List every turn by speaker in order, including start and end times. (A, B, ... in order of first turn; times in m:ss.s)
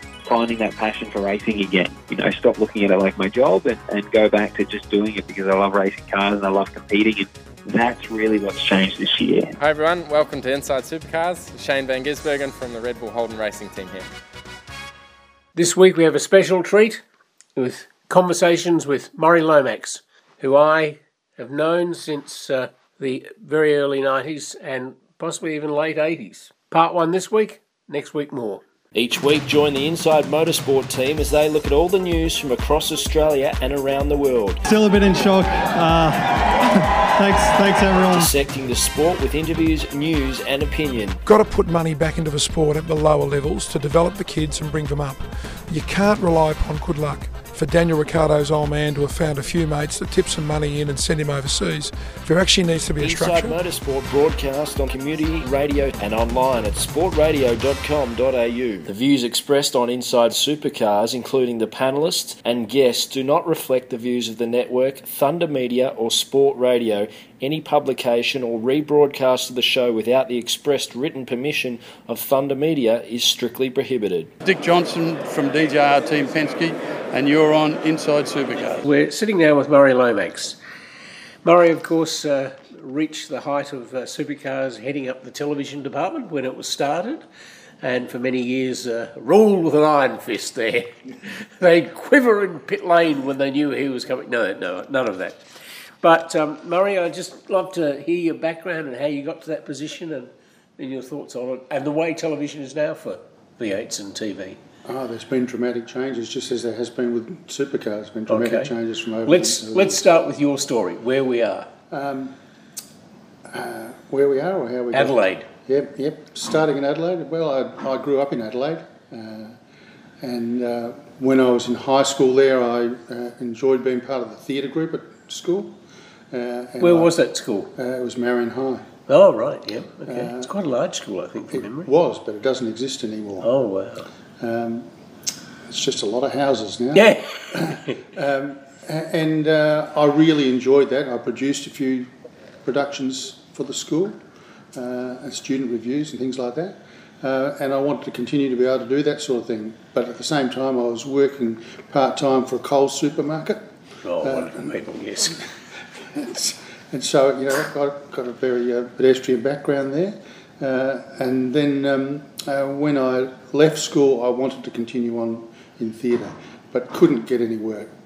0:00.2-0:09.5 A
0:09.6-0:14.1 B
0:15.6-0:17.0 C
0:17.6-0:28.6 C
0:29.0-0:34.6 D
0:34.7-0:38.3 E
0:38.1-0:41.2 D
0:41.3-0:53.6 F
0:53.0-1:14.3 D
1:14.4-1:18.8 G
1:18.8-1:20.6 C
1:21.4-1:27.2 C
1:27.8-1:31.0 C
1:31.6-1:35.4 C
1:36.0-1:44.6 C
1:44.9-1:50.0 H
1:48.3-1:48.7 C
1:49.3-1:51.7 C
1:51.9-1:52.4 H
1:53.5-1:59.6 H
1:54.9-1:55.5 C
2:00.2-2:05.8 H
2:06.3-2:07.1 H
2:06.8-2:07.7 C
2:07.8-2:08.9 H
2:09.1-2:11.9 C
2:10.1-2:10.5 H
2:11.5-2:13.5 H
2:13.4-2:14.1 C
2:14.4-2:14.9 H
2:15.7-2:22.1 H
2:16.9-2:18.0 C
2:22.6-2:24.2 H
2:24.7-2:33.7 H
2:34.0-2:35.4 C
2:34.2-2:35.4 H
2:36.0-2:47.9 H